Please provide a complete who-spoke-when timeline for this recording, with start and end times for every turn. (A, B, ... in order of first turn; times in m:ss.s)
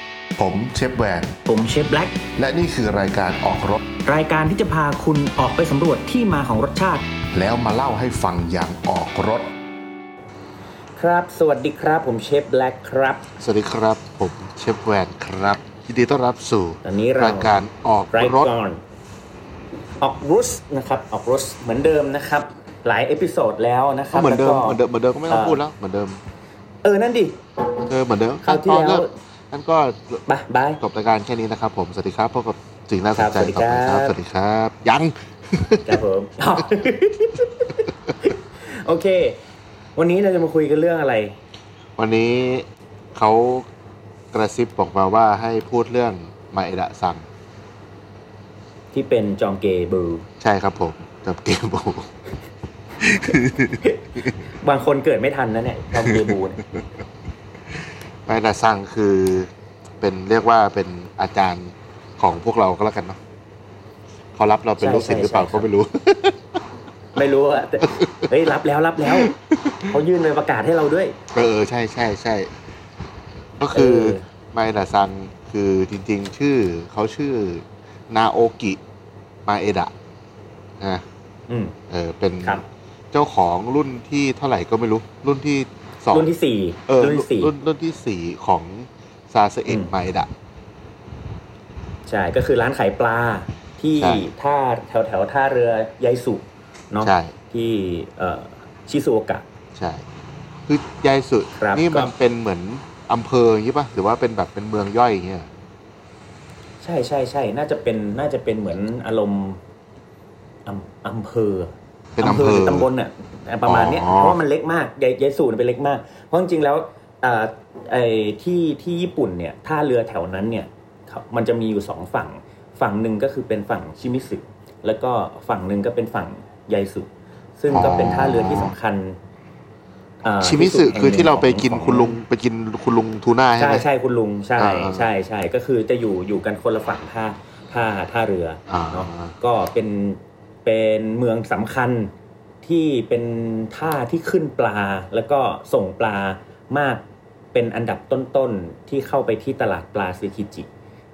0:00.4-0:01.4 A
0:01.4-0:02.2 B
0:02.3-0:03.8 A
0:04.0-0:07.0 B
0:07.3-0:09.5 A
0:11.0-0:13.2 B
0:13.4-0:18.5 C
0:16.8-0:18.8 B
0:20.0-0:25.6 B
0:24.1-0:26.2 C
0:26.8-0:27.4 B
0:27.9-0:30.2 C
0:28.4-0:29.1 B
0:30.3-0:30.8 B
0:30.8-0:36.0 C
0:33.2-0:34.1 B
0:35.8-0:39.4 B
0:40.0-0:41.4 B
0:42.0-0:43.6 C
0:44.3-0:47.2 C
0:48.9-0:50.2 B
0:50.4-0:52.1 C
0:53.0-0:54.4 C
0:53.8-0:56.6 B
0:56.0-0:56.4 C
0:58.2-1:03.2 C
1:04.3-1:06.6 C
1:04.8-1:05.7 B
1:07.1-1:09.3 B
1:07.8-1:08.2 C
1:09.0-1:10.0 C
1:09.9-1:11.2 B
1:11.3-1:12.5 C
1:13.6-1:18.8 C
1:13.7-1:14.2 B
1:19.4-1:19.9 C
1:21.5-1:21.8 B
1:21.9-1:26.3 C
1:26.1-1:27.5 B
1:26.9-1:30.3 C
1:29.7-1:29.9 B
1:32.1-1:39.4 B
1:34.0-1:34.3 C
1:37.0-1:37.3 C
1:39.8-1:40.0 C
1:40.7-1:45.5 C
1:41.5-1:42.1 B
1:46.8-1:49.6 B
1:50.6-2:09.2 B
1:52.2-1:52.9 C
1:53.6-1:54.4 C
2:07.7-2:08.7 C
2:10.2-2:12.2 B
2:10.4-2:13.8 C
2:13.6-2:22.1 B
2:14.6-2:15.1 C
2:18.7-2:19.3 C
2:22.6-2:30.7 B